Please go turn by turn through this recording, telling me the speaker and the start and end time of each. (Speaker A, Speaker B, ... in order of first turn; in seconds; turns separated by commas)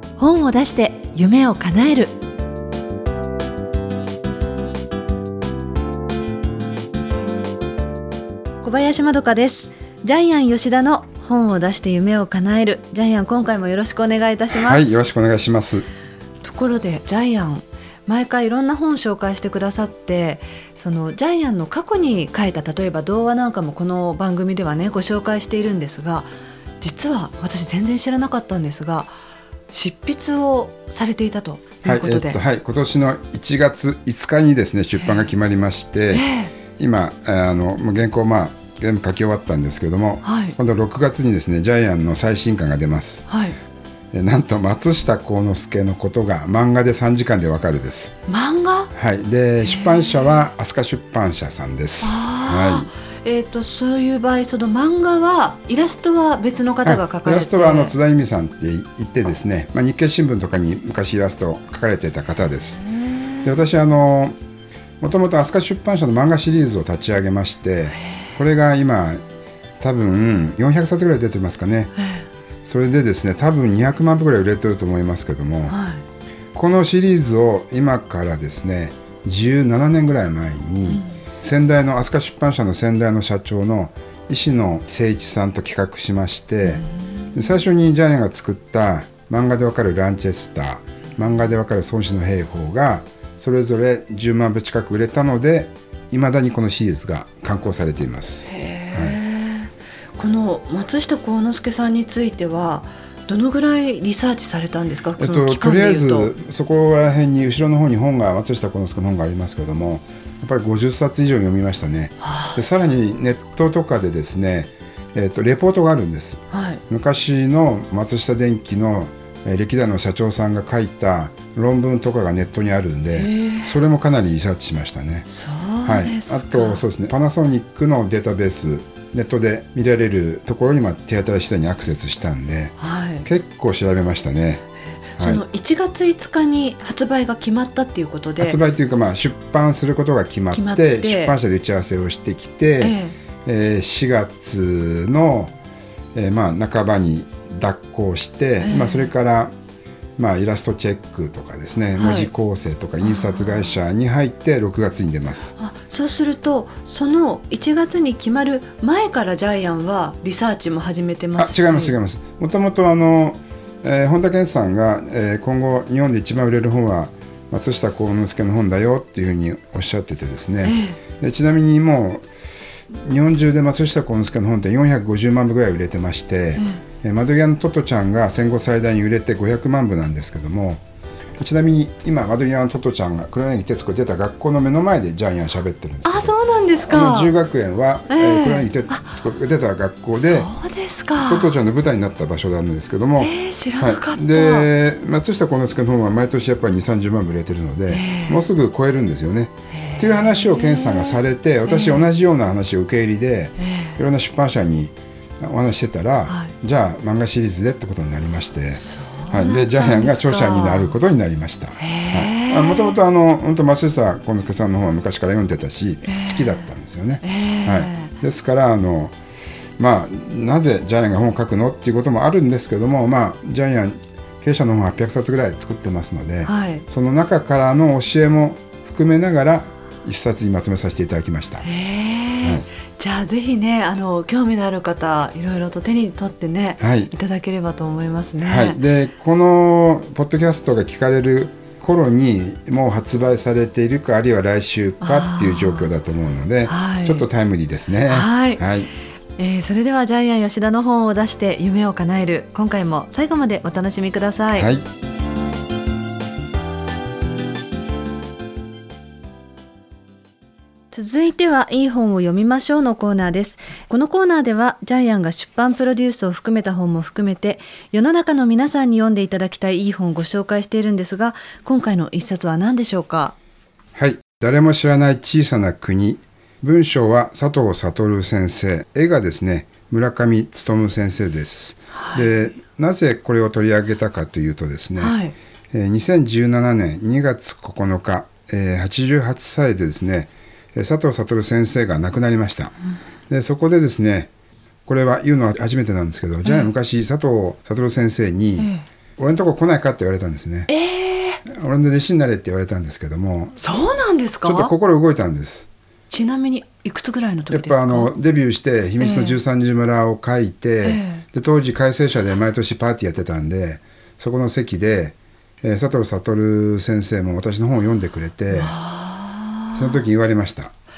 Speaker A: 0.2-2.1, Speaker A: 8.6-14.9, Speaker B: 14.5-15.8, Speaker A: 16.4-26.3, Speaker A: 26.8-29.1, Speaker A: 29.7-32.4, Speaker B: 31.8-43.2, Speaker A: 36.1-36.5, Speaker A: 40.2-40.5, Speaker A: 43.3-43.5, Speaker B: 44.1-48.1, Speaker A: 48.3-48.9, Speaker B: 48.9-52.9, Speaker A: 49.7-50.3, Speaker A: 52.0-58.0, Speaker B: 56.8-62.8, Speaker B: 63.4-64.3, Speaker B: 65.0-69.2, Speaker B: 69.8-71.9, Speaker A: 72.0-72.2, Speaker B: 72.6-75.7, Speaker A: 75.7-76.0, Speaker B: 76.5-86.8, Speaker A: 80.9-81.1, Speaker A: 86.7-87.3, Speaker B: 87.3-99.2, Speaker A: 98.5-106.3, Speaker B: 105.2-125.3, Speaker A: 112.2-112.7, Speaker A: 116.5-116.8, Speaker A: 123.1-123.7, Speaker A: 125.3-126.8, Speaker B: 125.8-134.6, Speaker A: 132.8-133.2, Speaker A: 135.1-138.6, Speaker B: 138.4-145.5, Speaker A: 140.5-141.3, Speaker A: 142.8-143.1, Speaker B: 146.1-149.5, Speaker A: 148.6-149.1, Speaker B: 150.2-155.5, Speaker A: 151.9-152.3, Speaker A: 153.0-153.7, Speaker A: 155.6-161.9, Speaker B: 161.4-172.2, Speaker A: 170.6-171.0, Speaker B: 172.9-180.8, Speaker B: 181.4-190.5, Speaker A: 186.0-187.3, Speaker A: 188.1-189.1, Speaker A: 190.2-191.5, Speaker B: 191.2-219.1, Speaker A: 193.2-194.7, Speaker A: 197.9-198.4, Speaker A: 199.7-202.1, Speaker A: 203.6-204.0, Speaker A: 206.3-206.5, Speaker A: 208.8-210.9, Speaker A: 211.8-213.0, Speaker A: 216.1-216.6, Speaker A: 217.2-218.1, Speaker B: 219.8-231.6, Speaker A: 226.4-226.8, Speaker A: 231.6-238.8, Speaker B: 236.8-237.1, Speaker B: 238.4-248.9, Speaker A: 245.0-245.9, Speaker A: 246.7-247.2, Speaker A: 248.1-248.6, Speaker A: 249.4-254.7, Speaker B: 254.6-254.8, Speaker A: 260.9-273.4, Speaker B: 273.9-285.1, Speaker A: 281.9-282.3, Speaker A: 285.0-285.3, Speaker B: 285.7-292.7, Speaker B: 293.3-294.3, Speaker B: 294.9-300.7, Speaker A: 296.4-296.7, Speaker A: 298.6-298.8, Speaker A: 300.7-301.4, Speaker B: 301.4-303.6, Speaker A: 303.6-304.7, Speaker B: 304.4-305.7, Speaker A: 306.1-308.1, Speaker B: 307.5-318.7, Speaker A: 309.0-309.4, Speaker A: 310.8-311.2, Speaker A: 318.5-320.0, Speaker B: 319.7-320.7